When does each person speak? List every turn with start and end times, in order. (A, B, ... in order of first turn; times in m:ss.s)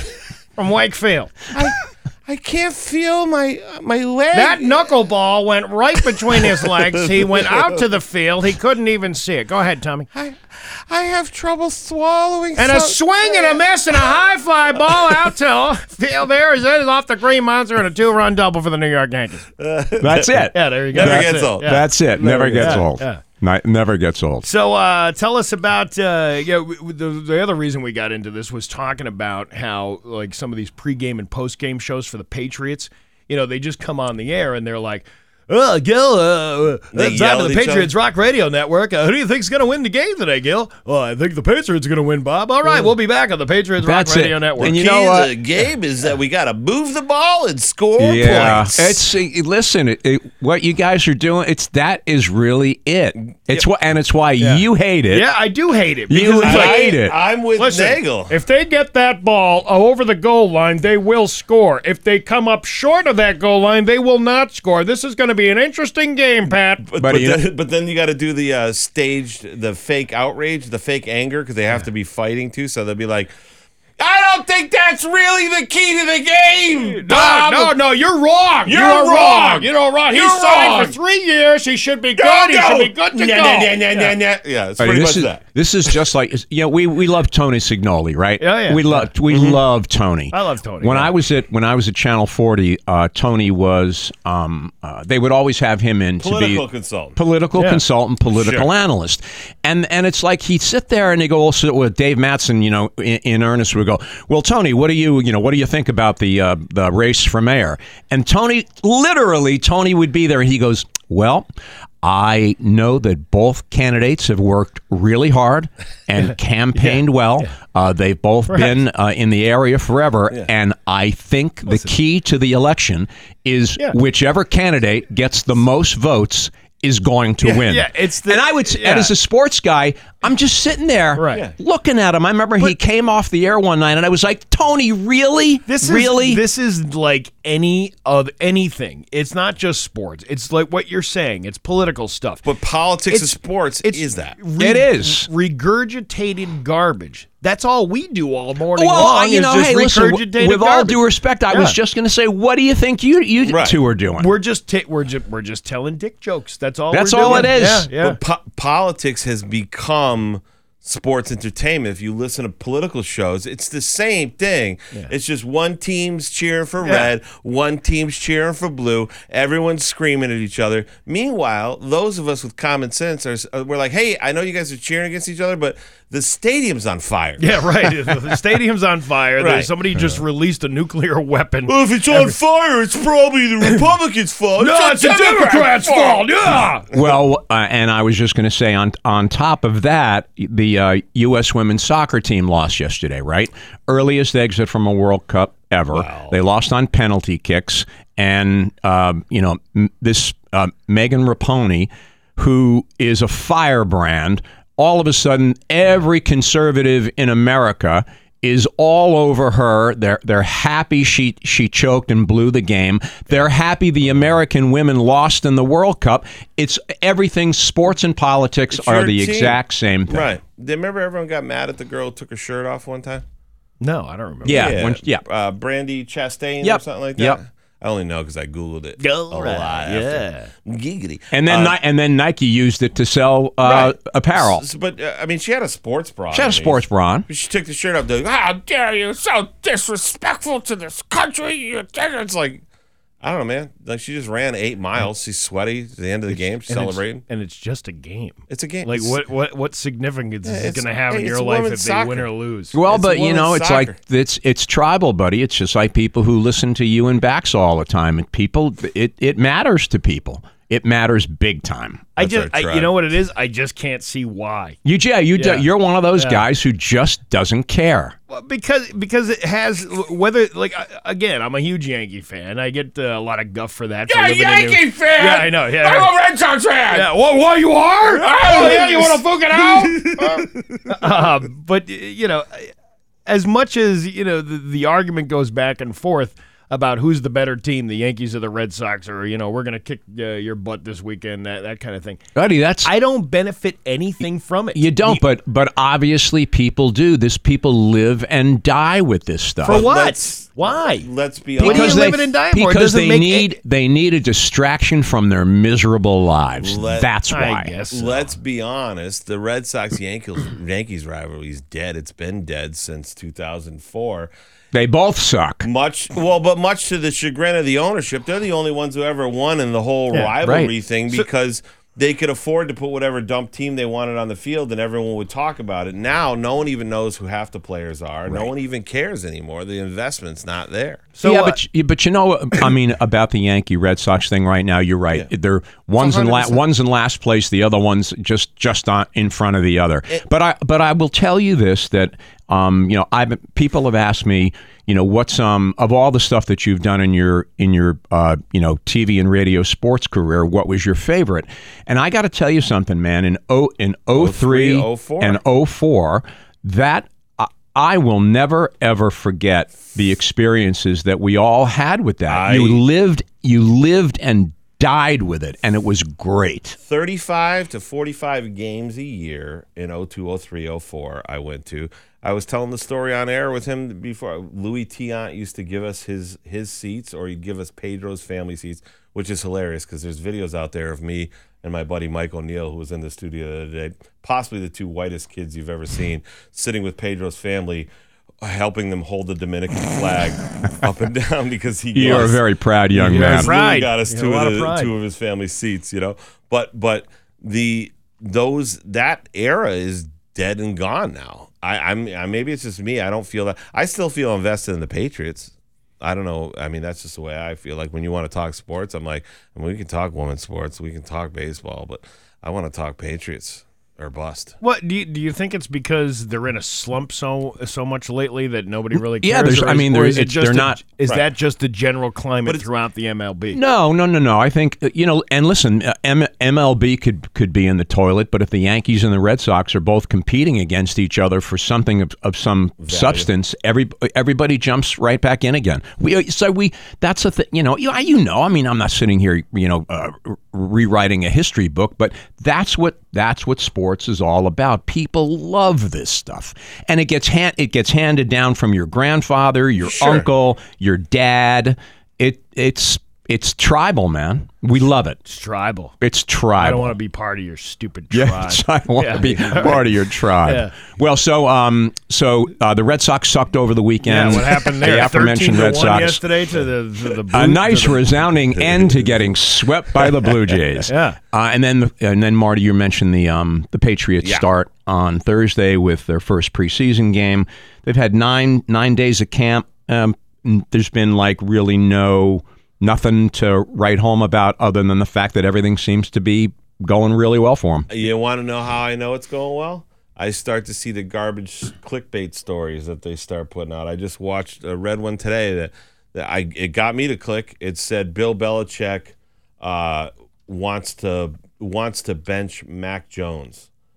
0:00.6-0:01.5 A
0:01.5-0:04.9 B
0:04.3-0:10.1 A
0:06.2-0:07.8 B
0:10.1-0:13.7 B
0:12.6-0:19.5 A
0:14.9-0:15.1 B
0:19.6-0:22.8 B
0:20.0-0:24.5 C
0:20.5-0:23.2 A
0:24.4-0:44.8 A
0:36.9-0:37.9 B
0:43.8-0:45.3 C
0:44.6-0:49.0 B
0:48.0-0:55.3 C
0:53.3-0:53.6 B
0:54.4-0:57.0 A
0:56.1-0:57.2 C
0:56.4-0:58.4 B
0:57.6-1:06.8 A
1:06.9-1:13.3 B
1:07.0-1:07.4 C
1:14.0-1:17.8 B
1:16.8-1:24.1 A
1:18.6-1:21.0 B
1:22.2-1:25.4 B
1:24.8-1:36.6 C
1:28.4-1:29.1 A
1:29.3-1:29.6 B
1:30.3-1:31.1 A
1:36.2-1:37.2 B
1:37.2-1:51.5 C
1:37.5-1:37.8 A
1:38.3-1:38.7 B
1:52.0-2:16.4 C
1:56.2-1:57.5 A
1:58.5-1:58.7 A
2:01.6-2:01.9 A
2:07.6-2:09.1 A
2:11.1-2:11.4 A
2:15.6-2:22.4 A
2:22.4-2:24.4 B
2:23.1-2:31.8 A
2:24.6-2:25.3 C
2:28.7-2:34.3 C
2:33.4-2:33.8 B
2:34.2-2:38.2 A
2:36.9-2:37.9 C
2:37.2-2:58.4 B
2:46.8-2:47.1 A
2:57.4-3:02.4 A
2:59.4-3:00.0 B
3:01.7-3:06.3 B
3:04.6-3:06.9 A
3:06.9-3:40.3 C
3:15.9-3:16.4 B
3:38.7-3:43.2 B
3:43.8-3:44.8 A
3:44.4-3:45.2 C
3:44.4-3:51.8 B
3:46.6-3:47.4 C
3:49.0-3:50.5 A
3:51.3-3:54.6 C
3:53.6-4:02.6 B
3:56.3-3:57.2 C
4:03.2-4:07.2 B
4:06.3-4:12.7 A
4:08.5-4:09.2 B
4:10.4-4:12.3 B
4:12.7-4:22.1 C
4:12.9-4:14.0 B
4:22.2-4:24.8 A
4:22.2-4:23.0 B
4:24.8-4:28.1 C
4:25.3-4:26.4 A
4:28.3-4:36.2 A
4:34.1-4:37.1 B
4:36.9-4:42.7 A
4:38.1-4:41.0 B
4:43.2-4:52.2 A
4:52.4-4:52.9 C
4:52.8-4:55.2 A
4:54.7-4:59.9 C
4:59.6-5:03.6 A
4:59.6-5:02.2 B
5:01.6-5:07.8 C
5:06.6-5:07.1 B
5:07.3-5:08.3 A
5:07.9-5:14.3 B
5:14.7-5:15.6 C
5:15.6-5:31.1 B
5:20.4-5:20.7 C
5:31.2-5:31.6 A
5:31.2-6:06.8 C
5:36.0-5:36.4 A
5:36.0-5:36.5 B
5:54.1-5:55.4 B
6:02.3-6:02.8 B
6:06.8-6:27.9 B
6:28.4-6:32.4 B
6:31.9-6:33.5 C
6:32.9-6:34.9 A
6:33.0-6:54.6 B
6:54.6-7:03.6 A
6:59.0-7:00.8 C
7:03.5-7:35.2 C
7:12.8-7:13.3 B
7:29.8-7:30.3 B
7:35.2-7:35.9 A
7:36.0-7:36.9 C
7:36.6-7:39.8 A
7:38.1-7:46.2 C
7:40.4-7:40.8 A
7:44.0-7:48.2 A
7:47.3-8:07.9 C
7:48.5-7:49.3 B
7:50.8-7:51.2 A
7:54.2-7:54.5 B
8:07.9-8:23.7 B